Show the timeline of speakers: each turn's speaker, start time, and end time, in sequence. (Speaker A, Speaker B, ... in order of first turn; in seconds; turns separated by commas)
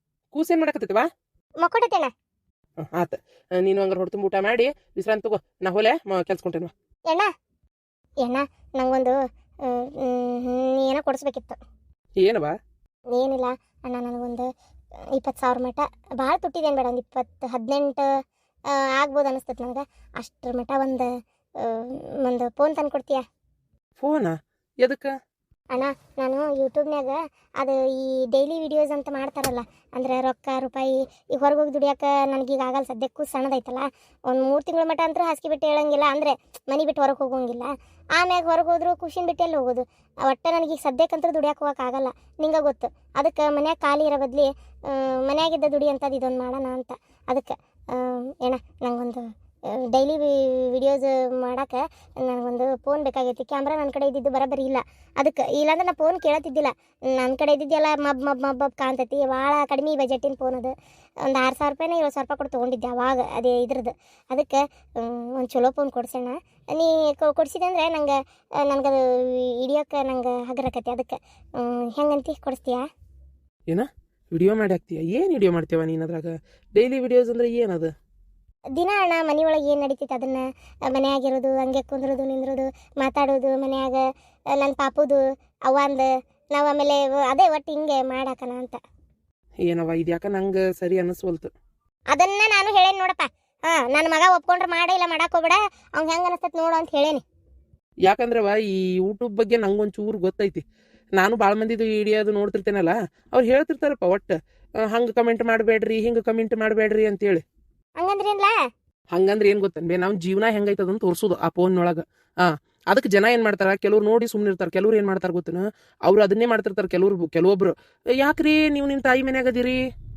Speaker A: 0.3-1.1, Speaker B: 1.6-2.1, Speaker A: 2.9-6.7, Speaker B: 8.2-11.6, Speaker A: 12.2-12.5, Speaker B: 13.1-14.5, Speaker B: 15.1-18.1, Speaker B: 18.7-23.2, Speaker A: 24.0-25.1, Speaker B: 25.7-60.7, Speaker B: 61.2-72.8, Speaker A: 73.7-77.9, Speaker B: 78.7-88.8, Speaker A: 89.7-91.5, Speaker B: 92.1-97.2, Speaker A: 98.0-100.6, Speaker A: 101.2-107.4, Speaker B: 108.0-108.5, Speaker A: 109.1-119.8